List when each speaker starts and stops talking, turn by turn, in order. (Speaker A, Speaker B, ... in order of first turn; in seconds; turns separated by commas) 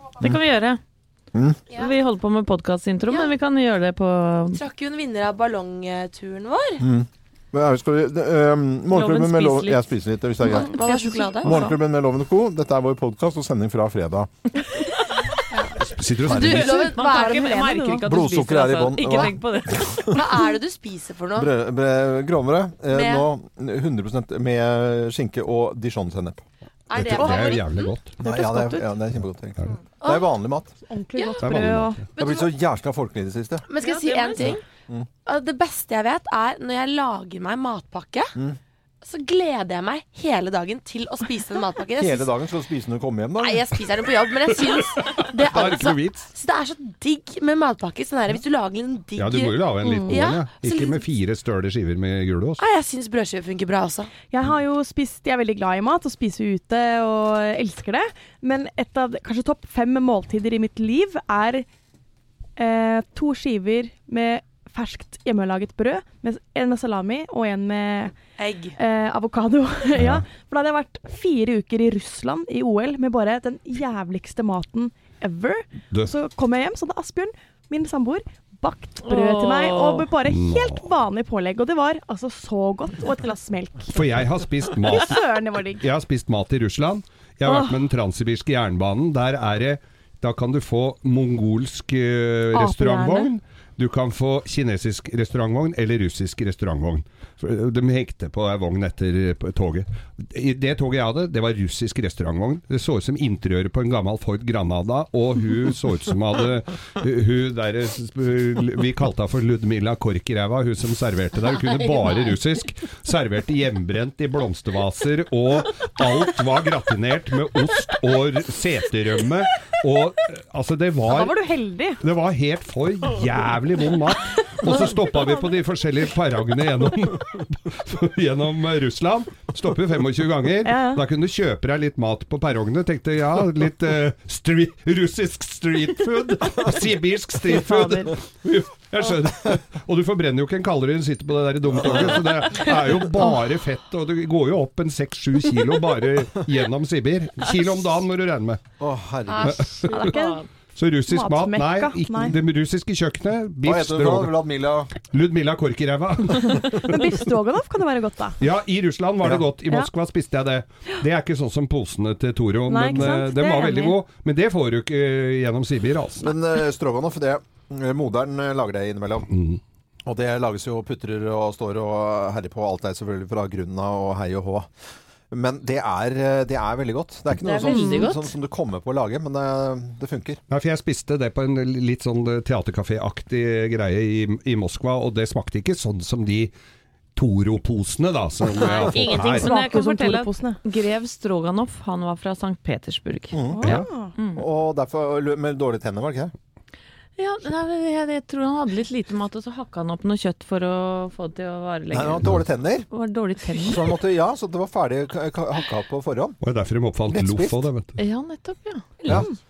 Speaker A: 0.2-0.8, Speaker A: 1.7-4.6, Speaker B: 4.5-6.8, Speaker C: 6.8-10.7, Speaker A: 8.9-9.8, Speaker B: 10.4-11.7, Speaker A: 10.5-11.7, Speaker C: 11.4-14.3, Speaker B: 15.5-17.7, Speaker D: 15.9-16.9, Speaker C: 16.2-16.7, Speaker A: 16.5-20.1, Speaker E: 17.1-18.1, Speaker C: 18.0-20.1, Speaker B: 20.1-21.5, Speaker C: 21.4-26.4, Speaker B: 22.9-23.2, Speaker B: 26.9-28.8, Speaker D: 26.9-28.1, Speaker C: 28.2-30.7, Speaker E: 30.9-32.1, Speaker B: 31.1-32.5, Speaker D: 31.4-32.0, Speaker C: 32.2-33.6, Speaker B: 33.7-34.6, Speaker A: 33.8-34.4, Speaker C: 34.4-35.1, Speaker B: 35.2-38.3, Speaker B: 39.0-42.3, Speaker C: 42.0-43.7, Speaker B: 43.4-51.0, Speaker D: 44.6-46.3, Speaker D: 49.1-52.6, Speaker B: 52.6-54.1, Speaker E: 54.3-61.6, Speaker E: 62.6-68.2, Speaker B: 68.4-68.8, Speaker E: 68.8-84.0, Speaker D: 69.9-70.2, Speaker A: 79.0-80.1, Speaker D: 80.2-80.8, Speaker D: 83.9-121.4, Speaker E: 84.6-85.8, Speaker E: 87.5-87.8, Speaker E: 92.5-93.3, Speaker E: 121.0-122.0, Speaker D: 122.0-148.6, Speaker E: 124.6-125.2, Speaker E: 130.6-131.0, Speaker E: 137.4-138.1, Speaker C: 141.8-142.1, Speaker C: 148.8-149.8, Speaker D: 149.4-150.1, Speaker E: 149.9-150.4, Speaker A: 149.9-150.4, Speaker D: 150.8-154.4, Speaker E: 151.1-152.4, Speaker C: 153.6-154.9, Speaker D: 155.0-157.1, Speaker E: 156.5-158.4, Speaker D: 158.4-166.3, Speaker E: 162.7-163.9, Speaker C: 166.2-169.3, Speaker D: 169.3-169.6, Speaker C: 170.1-174.7, Speaker C: 175.3-180.4, Speaker B: 177.4-178.1, Speaker A: 177.5-178.2, Speaker D: 180.5-186.5, Speaker D: 187.1-189.5, Speaker A: 188.6-193.4, Speaker E: 189.0-190.6, Speaker C: 193.3-193.8, Speaker E: 193.5-194.1, Speaker A: 194.2-194.4, Speaker C: 194.3-196.3, Speaker A: 197.2-202.3, Speaker C: 201.9-202.9, Speaker A: 202.9-203.9, Speaker C: 203.6-206.4, Speaker D: 206.4-208.0, Speaker C: 207.1-207.6, Speaker A: 208.0-209.1